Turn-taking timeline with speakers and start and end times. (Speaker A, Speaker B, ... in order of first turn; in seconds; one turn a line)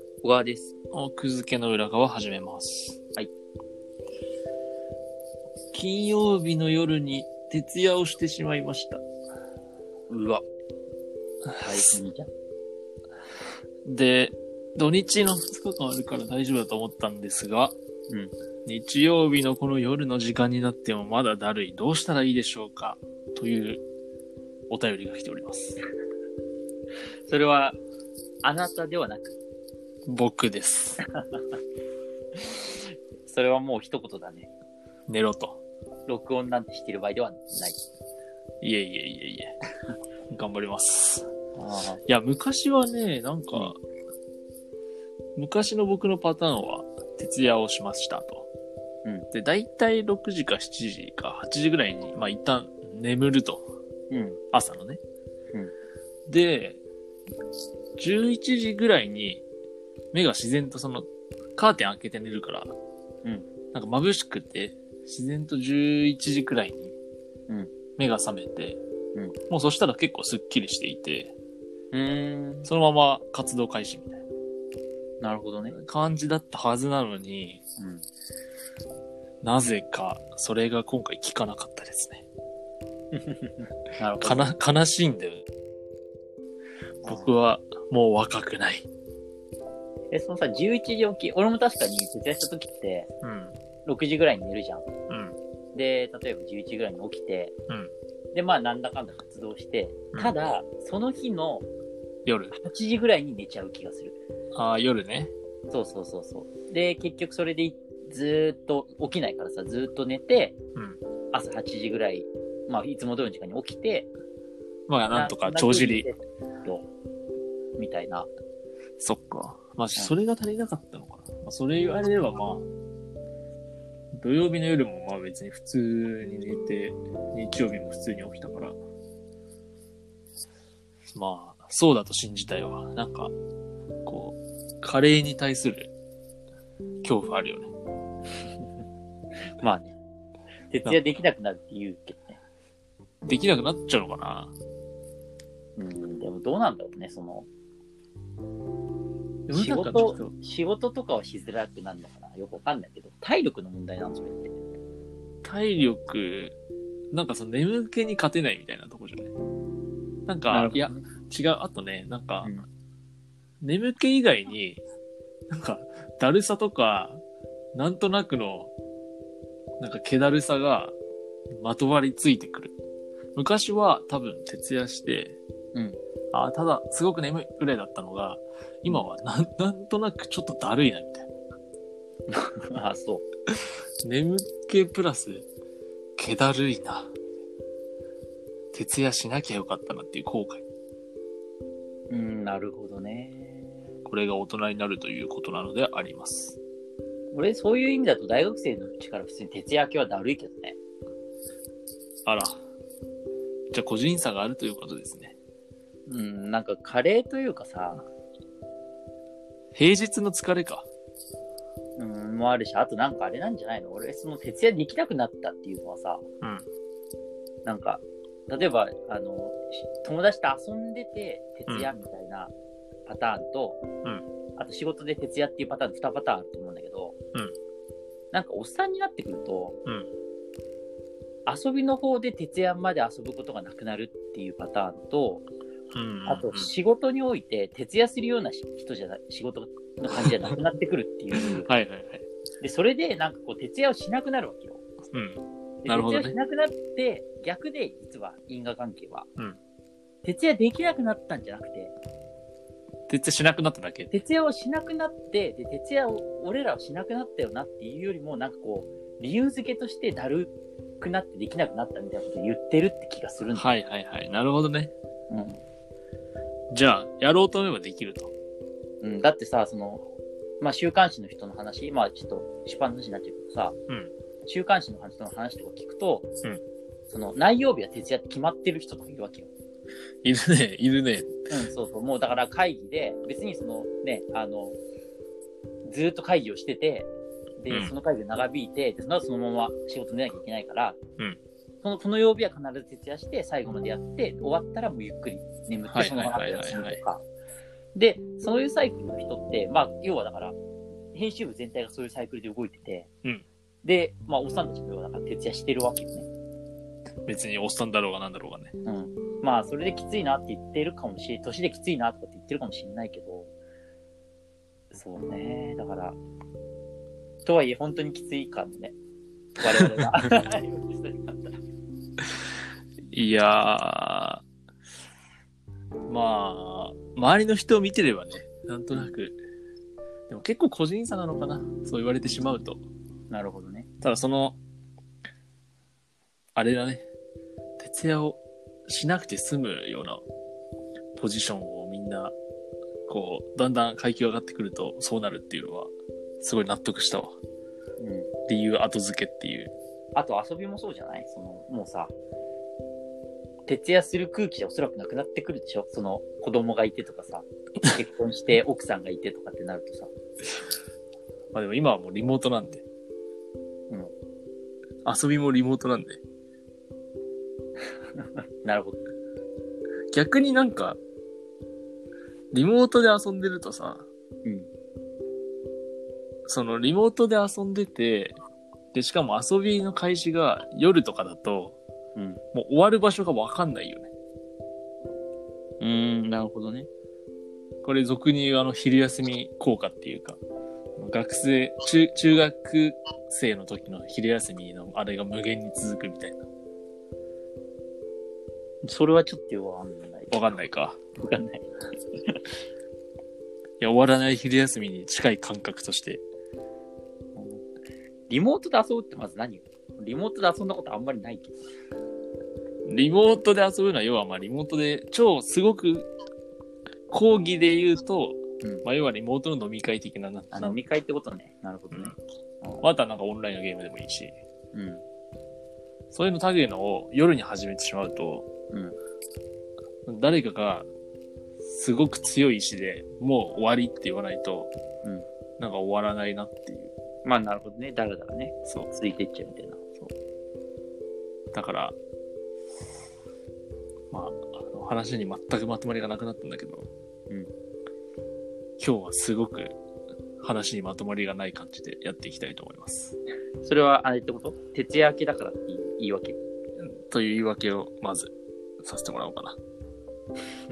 Speaker A: 0.2-0.8
Speaker B: 0.9-3.0
Speaker B: 5.7-9.0
Speaker A: 10.1-10.4
Speaker B: 11.5-12.0
Speaker A: 11.6-12.3
Speaker B: 13.8-17.8
Speaker B: 18.7-23.8
Speaker B: 24.7-25.8
Speaker A: 27.3-27.8
Speaker A: 28.4-29.4
Speaker B: 30.1-31.0
Speaker A: 33.3-34.5
Speaker B: 35.1-35.6
Speaker A: 36.1-37.8
Speaker B: 38.6-39.6
Speaker B: 40.3-41.3
Speaker A: 41.6-42.0
Speaker B: 42.1-43.8
Speaker B: 45.4-48.5
Speaker B: 49.3-53.6
Speaker A: 54.1-54.4
Speaker B: 54.5-55.0
Speaker B: 56.3-56.8
Speaker B: 58.0-59.5
Speaker B: 60.1-62.8
Speaker B: 63.7-67.0
Speaker B: 68.0-68.8
Speaker B: 69.5-71.3
Speaker A: 71.9-72.7
Speaker B: 72.7-74.2
Speaker A: 75.2-75.8
Speaker B: 75.7-77.6
Speaker A: 77.8-78.1
Speaker B: 79.4-82.2
Speaker A: 83.1-84.5
Speaker B: 84.2-85.4
Speaker A: 87.0-87.3
Speaker B: 87.0-88.9
Speaker A: 90.1-93.1
Speaker B: 93.2-93.6
Speaker A: 93.8-94.8
Speaker B: 95.1-95.4
Speaker A: 95.7-97.5
Speaker A: 98.3-101.7
Speaker B: 102.3-102.5
Speaker A: 102.5-104.2
Speaker B: 104.5-105.3
Speaker A: 105.7-110.6
Speaker A: 111.3-114.1
Speaker B: 114.9-116.1
Speaker A: 115.1-116.8
Speaker A: 117.8-118.3
Speaker B: 119.0-122.7
Speaker B: 124.1-128.8
Speaker B: 131.1-133.3
Speaker B: 134.1-135.9
Speaker B: 137.0-137.7
Speaker A: 139.6-140.0
Speaker A: 140.7-142.4
Speaker B: 143.3-144.6
Speaker A: 145.8-147.5
Speaker B: 149.5-150.3
Speaker A: 149.5-154.5
Speaker B: 155.4-156.6
Speaker B: 157.1-159.3
Speaker B: 160.3-162.5
Speaker A: 160.5-161.0
Speaker B: 163.6-164.8
Speaker B: 165.5-167.2
Speaker B: 167.8-168.7
Speaker B: 169.8-171.0
Speaker B: 171.6-172.8
Speaker B: 173.3-175.4
Speaker A: 175.7-176.0
Speaker B: 176.3-181.3
Speaker A: 182.3-183.2
Speaker B: 184.0-185.5
Speaker B: 186.2-187.1
Speaker B: 188.7-190.7
Speaker A: 192.1-193.8
Speaker B: 194.1-196.6
Speaker A: 197.3-200.8
Speaker B: 202.3-202.6
Speaker B: 203.7-205.4
Speaker A: 206.1-208.1
Speaker B: 209.8-210.9
Speaker A: 212.0-216.2
Speaker A: 217.7-222.5
Speaker A: 223.1-223.8
Speaker A: 224.6-227.2
Speaker A: 228.3-229.8
Speaker A: 231.5-235.5
Speaker B: 235.9-236.7
Speaker A: 236.3-241.7
Speaker B: 241.5-242.2
Speaker A: 242.6-244.8
Speaker B: 245.1-246.4
Speaker A: 245.8-249.3
Speaker A: 250.2-251.9
Speaker B: 253.1-254.1
Speaker A: 254.1-263.7
Speaker B: 263.6-264.9
Speaker A: 265.3-265.6
Speaker B: 266.7-268.3
Speaker A: 269.0-270.0
Speaker A: 270.6-273.8
Speaker A: 274.5-276.3
Speaker A: 277.1-279.5
Speaker B: 280.2-281.4
Speaker A: 281.5-284.8
Speaker A: 285.9-291.0
Speaker B: 287.7-287.9
Speaker A: 291.8-297.2
Speaker B: 295.9-297.0
Speaker A: 297.9-300.6
Speaker A: 301.1-303.1
Speaker A: 303.8-306.3
Speaker B: 307.3-308.7
Speaker A: 308.9-313.5
Speaker A: 314.9-316.2
Speaker A: 317.4-319.0
Speaker A: 319.6-321.6
Speaker B: 323.1-324.4
Speaker B: 326.1-329.4
Speaker B: 330.3-332.8
Speaker A: 333.3-333.9
Speaker B: 334.0-334.6
Speaker B: 336.6-337.1
Speaker B: 337.8-340.2
Speaker B: 341.2-342.4
Speaker B: 343.1-347.4
Speaker A: 348.0-348.3
Speaker B: 348.5-349.7
Speaker A: 350.1-352.1
Speaker A: 353.7-360.1
Speaker B: 361.5-362.9
Speaker B: 365.1-366.2
Speaker A: 368.2-369.0
Speaker B: 370.1-371.0
Speaker B: 372.5-374.1
Speaker B: 376.5-378.4
Speaker B: 378.9-381.8
Speaker B: 382.5-384.1
Speaker A: 385.8-386.9
Speaker B: 387.8-390.4
Speaker B: 391.0-396.5
Speaker A: 398.8-400.3
Speaker B: 400.3-401.0
Speaker A: 401.2-401.6
Speaker B: 403.8-406.2
Speaker A: 407.4-407.6
Speaker A: 408.3-411.6
Speaker B: 412.9-416.1
Speaker B: 417.1-420.8
Speaker A: 420.5-422.8
Speaker B: 422.8-424.4
Speaker A: 424.7-425.0
Speaker B: 426.1-428.5
Speaker A: 428.7-429.0
Speaker B: 430.1-430.9
Speaker B: 431.6-434.7
Speaker B: 435.6-436.9
Speaker A: 437.2-439.8
Speaker B: 441.5-442.0
Speaker B: 444.1-446.9
Speaker B: 448.8-449.8
Speaker B: 450.4-453.2
Speaker A: 453.6-456.4
Speaker B: 456.8-459.6